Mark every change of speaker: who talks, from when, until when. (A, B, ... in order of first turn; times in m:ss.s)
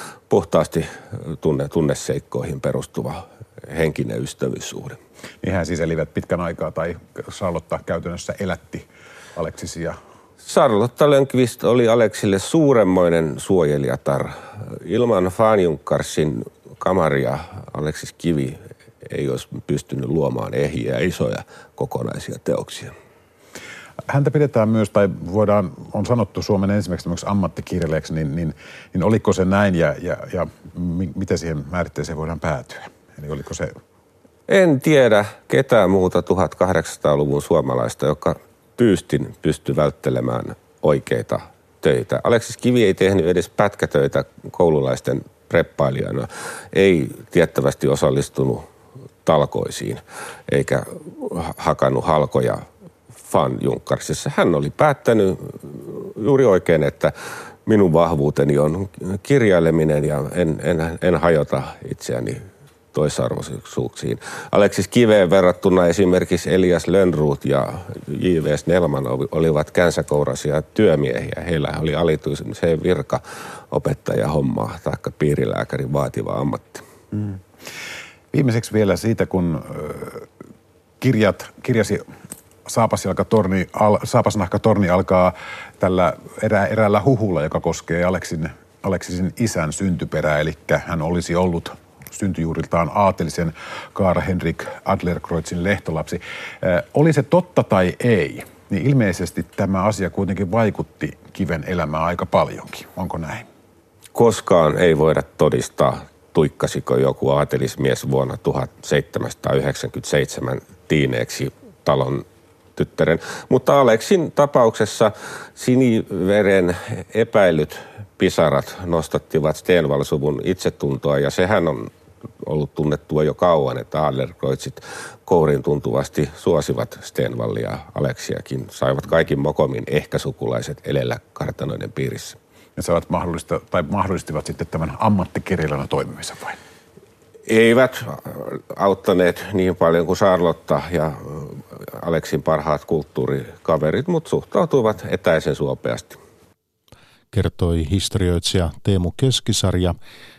0:00.3-0:05.0 A
0:05.4-0:10.0 B
0:10.4-0:22.9 A
0:24.1-0:33.8 B
0:34.5-0:48.6 A
0:49.2-0:52.6 A
0:53.2-0:57.1 A
0:57.6-1:16.8 A
1:17.1-1:17.7 B
1:18.3-1:20.3 B
1:21.0-1:22.0 B
1:22.6-1:43.5 B
1:44.1-2:01.9 A
2:02.4-2:12.4 A
2:12.8-2:16.6 B
2:17.4-2:26.2 A
2:27.3-2:30.0 C